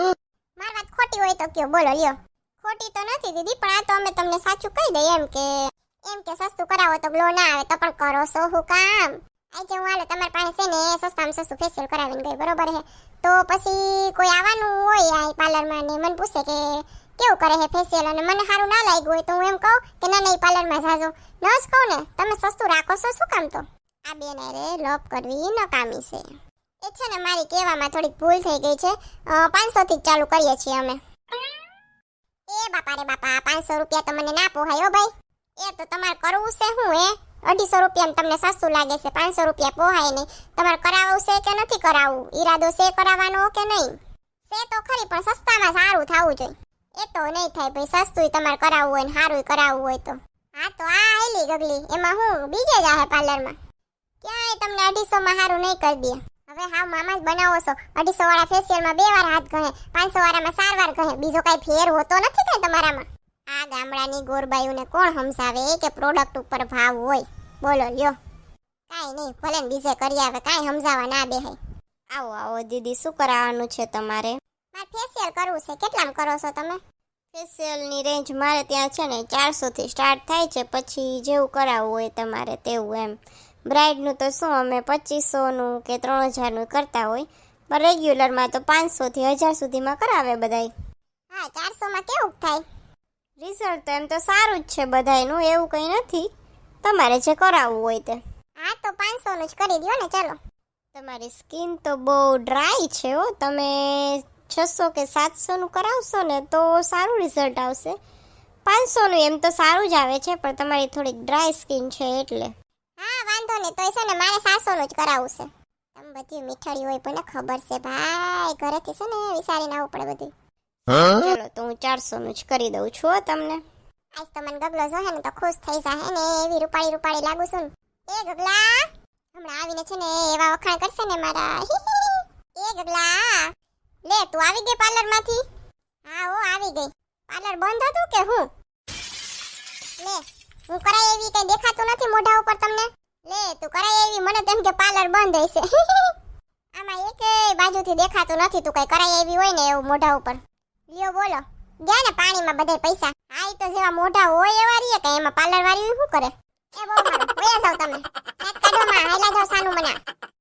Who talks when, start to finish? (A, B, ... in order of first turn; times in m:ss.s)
0:00.6-0:26.3 A
0:26.8-0:31.0 A
0:32.5-0:53.6 A
0:54.2-1:08.2 A
1:08.9-1:11.6 A
1:12.1-1:14.4 B
1:14.7-1:16.8 A
1:17.3-1:30.7 B
1:31.3-1:32.6 A
1:33.4-1:36.3 B
1:36.8-1:38.2 B
1:38.6-1:40.4 A
1:40.9-1:48.0 B
1:48.6-1:52.5 B
1:53.0-2:00.3 A
2:00.9-2:03.6 B
2:04.2-2:13.5 A
2:14.0-2:15.4 A
2:16.1-2:18.5 A
2:20.0-2:26.2 A
2:26.8-2:40.0 A